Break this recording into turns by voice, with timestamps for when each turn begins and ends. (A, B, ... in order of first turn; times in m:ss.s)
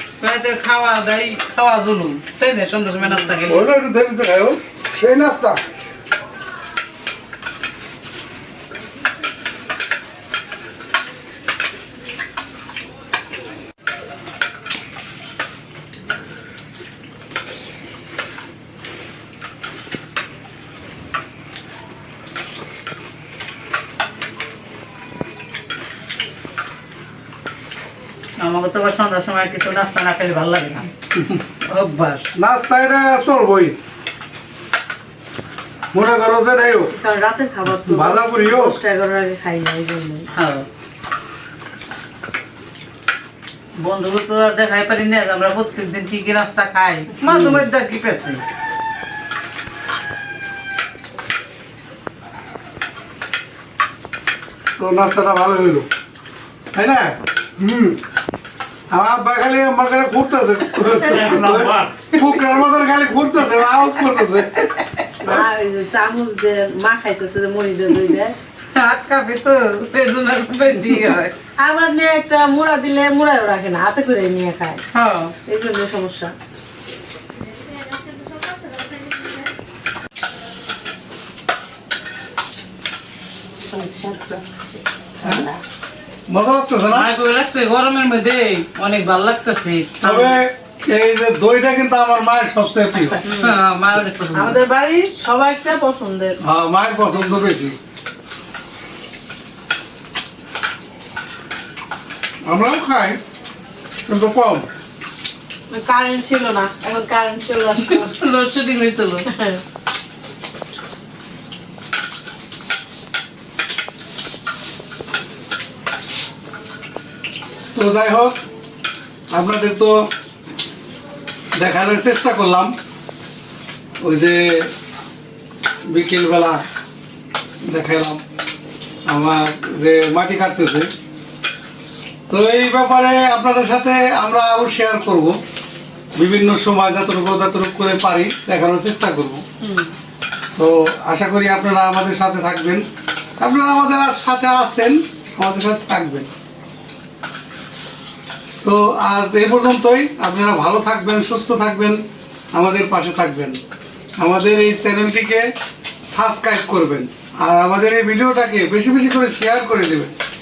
0:00.2-0:03.6 A
0:03.4-0:05.6 B
0:28.4-0:30.9 A
0:31.6-0:32.3 A
0:32.3-0:33.8 B
0:35.9-0:36.9 B
0:36.9-0:40.3 C
0:37.7-0:38.8 B
0:40.3-0:40.7 A
0:43.8-0:48.4 A
0:54.8-0:55.9 B
0:56.7-0:58.0 B
0:58.9-1:04.5 B
1:01.0-1:02.3 A
1:03.8-1:04.1 A
1:04.7-1:05.0 A
1:05.2-1:08.3 C
1:08.7-1:11.3 A
1:11.6-1:14.8 C
1:14.9-1:15.4 A
1:15.4-1:16.3 C
1:17.9-1:19.3 C
1:23.7-1:25.5 A
1:25.2-1:25.5 B
1:26.3-1:27.1 B
1:26.9-1:30.4 A
1:30.0-1:33.2 B
1:33.2-1:34.6 A
1:34.3-1:36.4 C
1:36.4-1:37.8 B
1:42.4-1:43.2 B
1:44.0-1:44.7 B
1:45.7-1:48.1 C
1:47.8-1:49.2 A
1:49.3-1:49.6 C
1:57.7-1:58.4 B
1:59.3-2:00.1 B
2:01.5-2:02.7 B
2:04.0-2:04.7 B
2:05.9-2:06.6 B
2:07.6-2:08.2 B
2:09.1-2:10.9 B
2:12.3-2:15.4 B
2:16.2-2:19.4 B
2:19.6-2:19.9 C
2:20.6-2:22.8 B
2:23.4-2:26.3 B
2:28.6-2:32.0 B
2:32.5-2:33.6 B
2:34.2-2:35.5 B
2:36.1-2:40.1 B